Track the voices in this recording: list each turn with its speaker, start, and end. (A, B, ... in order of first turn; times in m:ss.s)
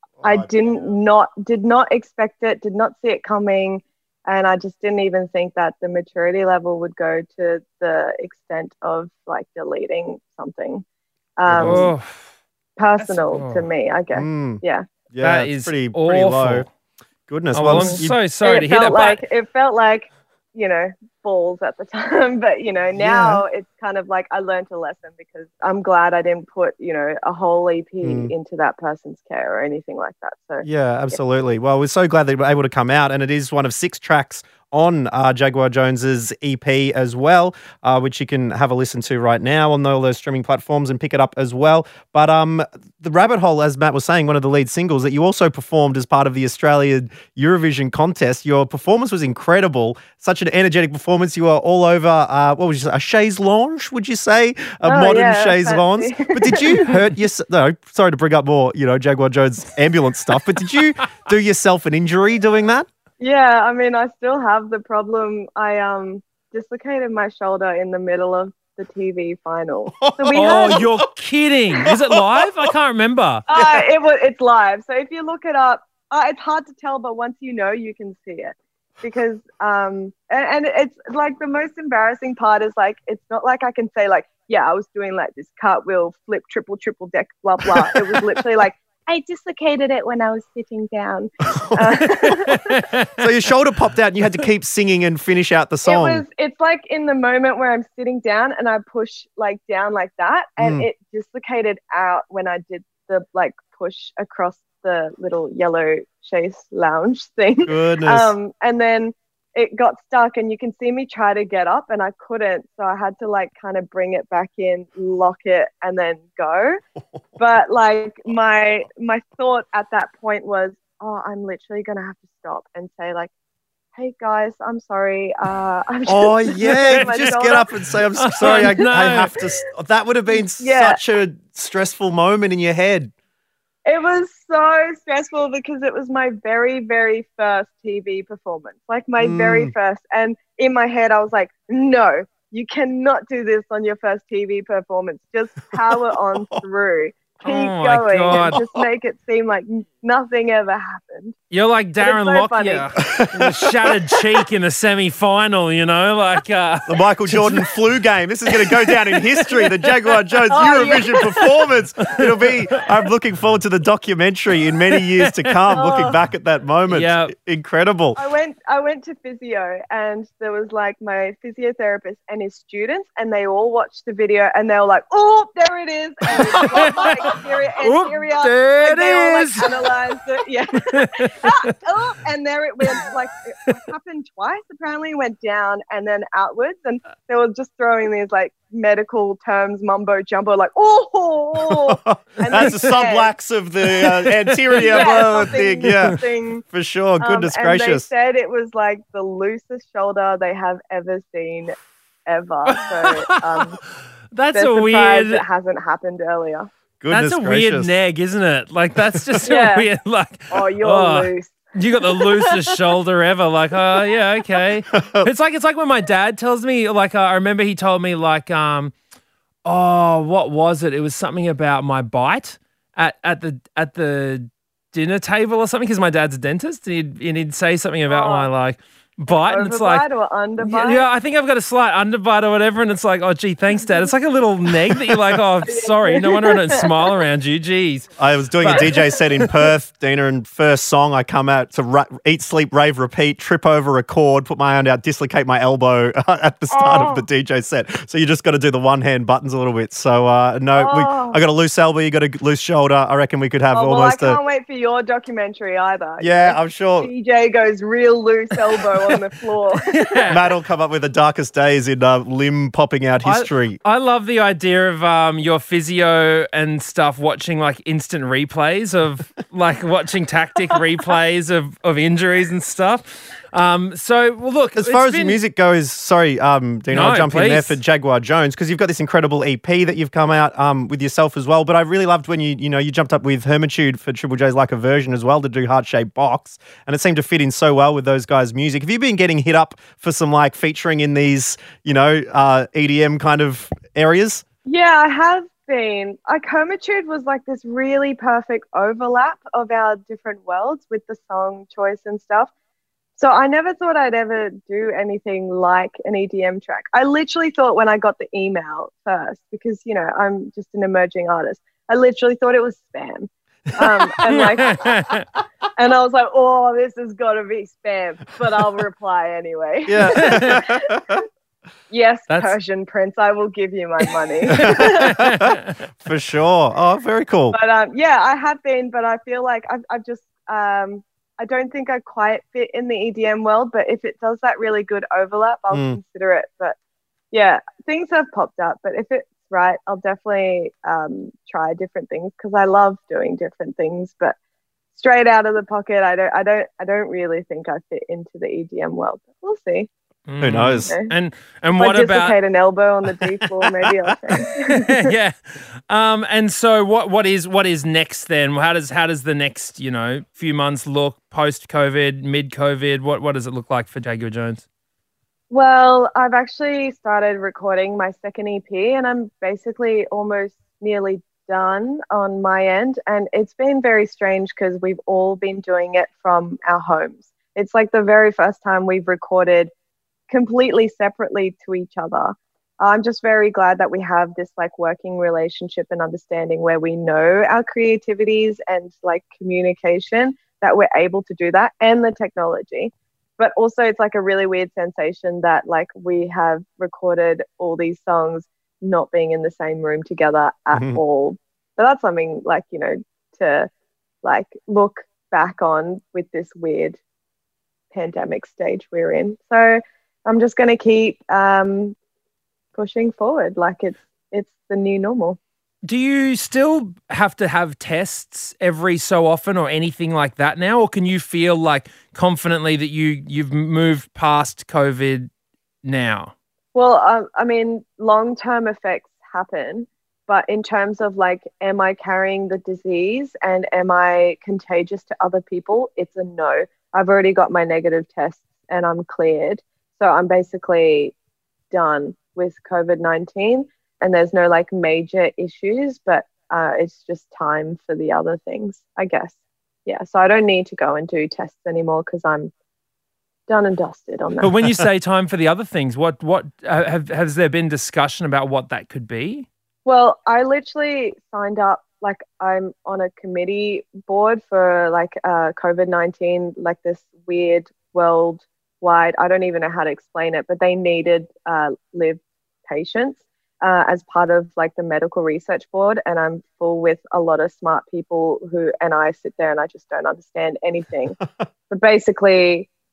0:00.2-0:00.8 A
0:00.2-0:10.8 B
0:11.4-0:11.9 B
0:11.5-0:11.9 A
0:11.6-0:12.3 C
0:12.8-0:14.8 B
0:13.0-0:13.7 C
0:14.1-0:16.7 A
0:15.2-0:16.7 C
0:17.3-0:18.2 A
0:17.5-0:19.2 C
0:17.6-0:31.2 B
0:22.9-0:23.4 A
0:28.0-0:28.3 A
0:30.6-1:02.9 A
0:54.8-0:57.0 B
1:03.2-1:10.8 B
1:10.0-1:11.0 A
1:10.3-1:13.4 C
1:11.8-1:12.7 A
1:13.5-1:32.7 B
1:31.4-1:31.8 A
1:32.3-1:33.1 C
1:33.2-1:36.2 A
1:35.8-1:56.8 B
1:40.6-1:40.8 A
1:47.6-1:48.3 A
1:57.4-2:03.3 B
2:04.0-2:07.7 B
2:06.1-2:13.1 A
2:06.9-2:07.4 C
2:08.2-2:09.3 C
2:10.6-2:11.0 B
2:13.8-2:31.4 B
2:19.2-2:19.7 A
2:25.7-2:26.6 A
2:27.4-2:28.6 C
2:28.5-2:28.8 A
2:31.5-2:37.7 C
2:32.0-2:32.9 B
2:33.0-2:34.4 A
2:36.9-2:48.2 A
2:38.5-2:40.2 C
2:40.5-2:41.4 B
2:41.1-2:41.4 C
2:45.0-2:45.6 C
2:45.7-2:46.2 B
2:46.9-2:47.3 C
2:48.2-3:13.3 B
2:56.6-2:59.7 C
3:00.9-3:01.3 C
3:11.6-3:18.1 A
3:12.5-3:12.8 C
3:14.7-3:16.1 C
3:14.8-3:16.6 B
3:17.2-3:21.7 B
3:22.3-3:23.8 B
3:23.2-3:23.7 C
3:24.3-3:25.4 C
3:24.5-3:26.7 B
3:27.0-3:27.9 A
3:27.1-3:38.9 C
3:29.1-3:29.4 A
3:29.4-3:29.9 B
3:30.5-3:32.5 B
3:34.9-3:35.3 A
3:39.6-3:50.0 C
3:48.1-3:48.5 B
3:49.4-3:51.0 B
3:50.6-3:59.5 C
3:55.6-3:56.9 B
3:58.2-4:14.4 A
3:58.7-3:59.0 B
4:06.8-4:07.2 B
4:10.7-4:11.4 B
4:13.7-4:20.0 B
4:16.2-4:17.1 A
4:19.8-4:20.4 C
4:20.3-4:23.8 A
4:23.2-4:35.4 C
4:34.7-4:54.4 A
4:36.9-4:37.8 C
4:54.6-5:02.5 B
5:03.2-5:14.9 B
5:14.3-5:15.2 C
5:15.8-5:21.2 B
5:19.9-5:21.2 A
5:20.1-5:20.6 C
5:21.9-5:25.2 B
5:22.3-5:22.5 C
5:24.4-5:25.8 C
5:24.6-5:27.6 A
5:27.5-5:36.8 B
5:35.7-5:36.0 A
5:37.3-5:44.4 B
5:44.9-5:49.9 B
5:50.3-5:52.4 C
5:50.4-5:50.9 A
5:50.9-5:51.1 B
5:51.8-5:55.1 B
5:54.4-5:55.4 C
5:55.9-6:04.6 C
6:05.5-6:19.7 B
6:20.3-6:43.7 B
6:40.7-6:41.0 A
6:44.2-6:47.0 B
6:47.9-6:52.0 B
6:52.7-6:55.4 B
6:55.8-7:05.3 C
7:05.8-7:06.3 C
7:06.7-7:21.1 B
7:21.7-7:32.5 B
7:33.5-7:34.5 B
7:34.4-7:39.5 C
7:39.8-8:01.2 B
8:01.7-8:02.7 B